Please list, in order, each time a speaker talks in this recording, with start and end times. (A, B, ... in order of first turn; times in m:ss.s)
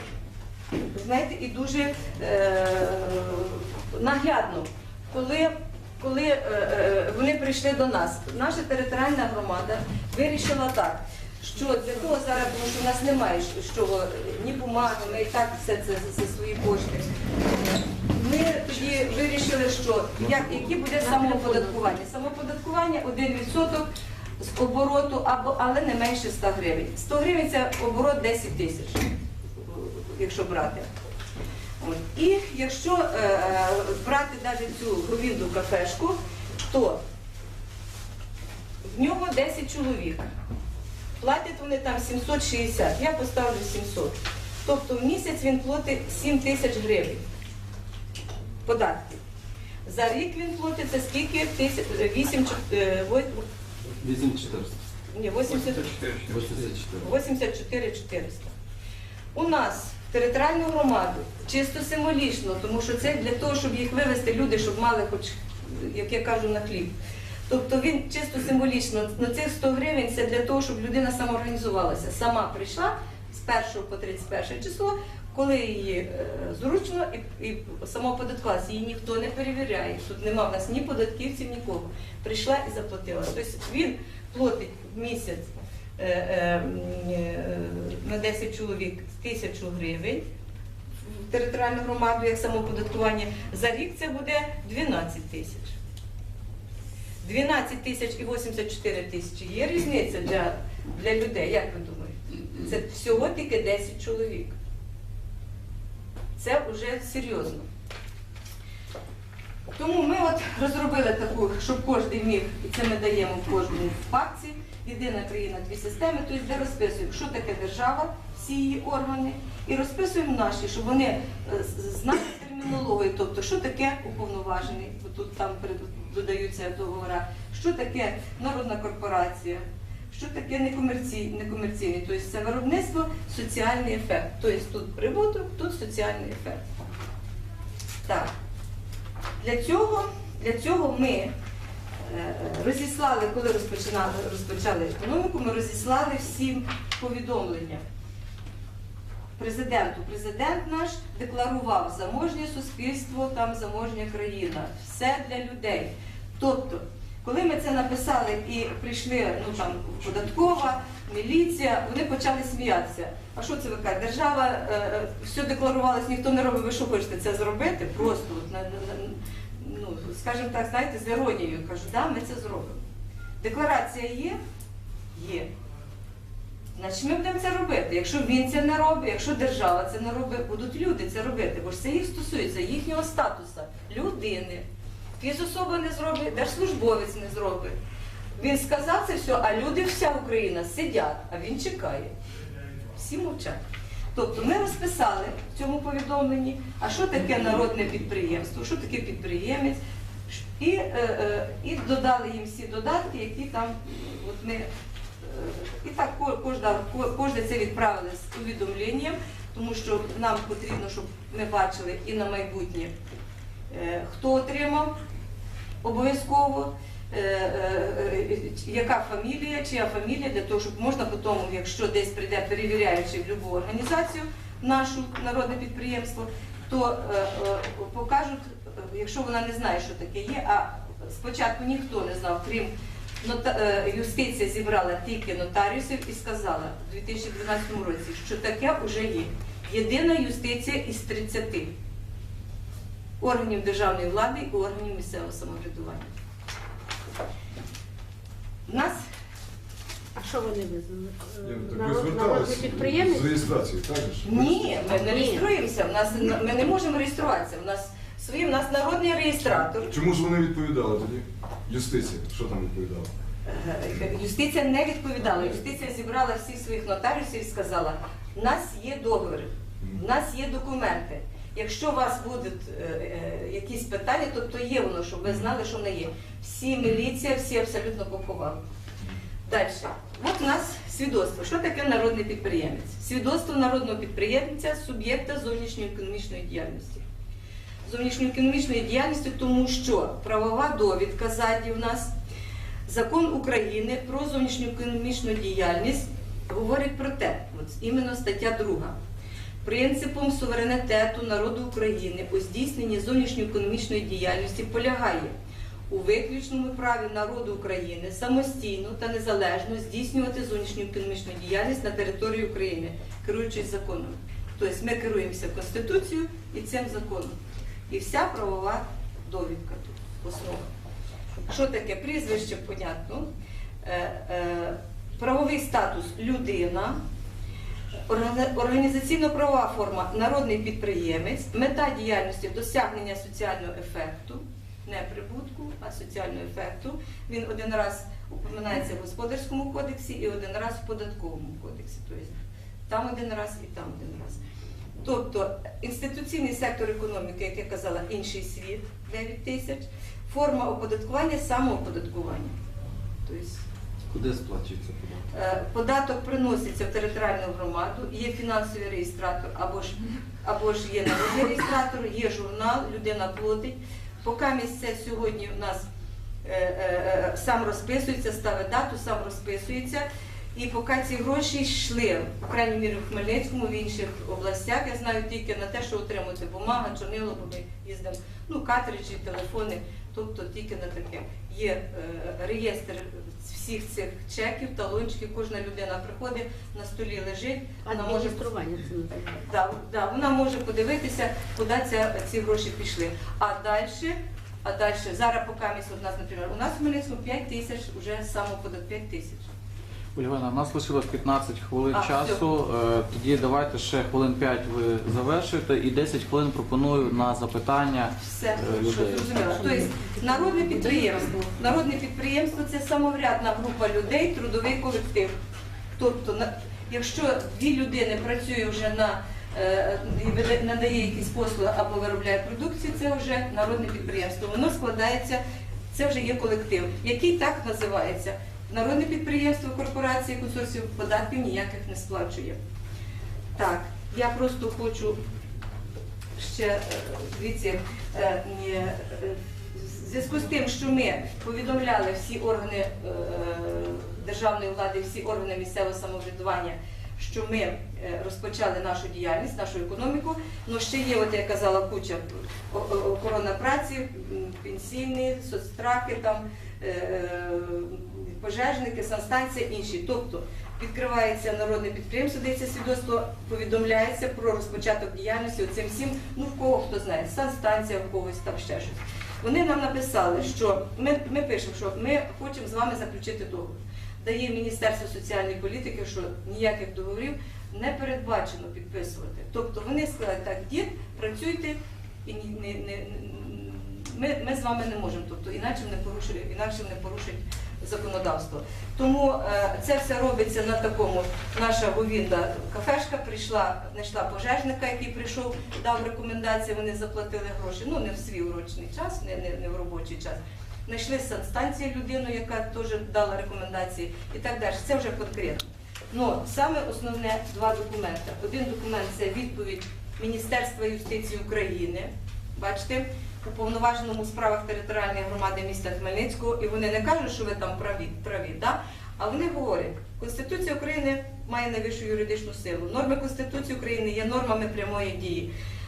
0:00.8-0:17.1 A
0:18.1-0:23.9 A
0:21.1-0:21.6 B
0:24.4-0:29.0 A
0:29.6-0:30.9 A
0:31.8-0:37.0 A
0:38.9-0:40.3 A
0:41.2-0:47.2 A
0:48.6-0:49.2 A
0:49.8-0:53.4 A
0:54.0-0:54.8 C
0:55.1-0:55.9 A
0:55.9-0:57.1 C
0:57.0-0:58.5 A
0:59.4-1:07.0 A
1:07.5-1:30.2 A
1:31.1-1:35.7 A
1:37.2-1:44.6 A
1:46.4-1:47.6 A
1:49.8-2:16.6 A
2:18.0-2:18.3 A
2:19.4-2:21.3 A
2:22.0-2:27.8 A
2:29.4-2:52.8 A
2:53.4-2:54.4 A
2:55.1-2:55.5 A
2:56.8-3:04.6 A
3:05.2-3:07.8 A
3:08.4-3:12.1 A
3:12.9-3:13.6 A
3:14.1-3:19.8 A
3:20.3-3:24.7 A
3:25.2-3:32.9 A
3:33.7-3:34.9 A
3:35.8-4:01.7 A
4:03.2-4:06.1 A
4:08.7-4:09.0 A
4:10.2-4:13.4 B
4:11.4-4:14.6 D
4:14.2-4:19.9 A
4:15.0-4:15.6 B
4:19.8-4:23.1 D
4:23.4-4:38.6 A
4:39.5-4:47.0 A
4:47.8-4:52.1 A
4:52.9-4:58.9 A
4:59.6-5:05.3 A
5:05.9-5:17.4 A
5:17.9-5:20.6 A
5:21.5-5:23.3 A
5:23.8-5:27.0 A
5:28.1-5:42.4 A
5:42.9-5:44.4 A
5:45.0-5:52.5 A
5:53.2-5:53.6 A
5:54.1-5:55.2 C
5:55.3-6:05.8 A
6:06.4-6:28.4 A
6:27.8-6:29.3 B
6:29.4-6:39.5 A
6:40.2-6:49.7 E
6:41.9-6:42.4 A
6:48.2-6:55.3 A
6:49.7-6:51.1 B
6:56.0-7:05.4 A
7:05.9-7:12.6 A
7:13.6-7:15.2 A
7:16.4-8:45.5 A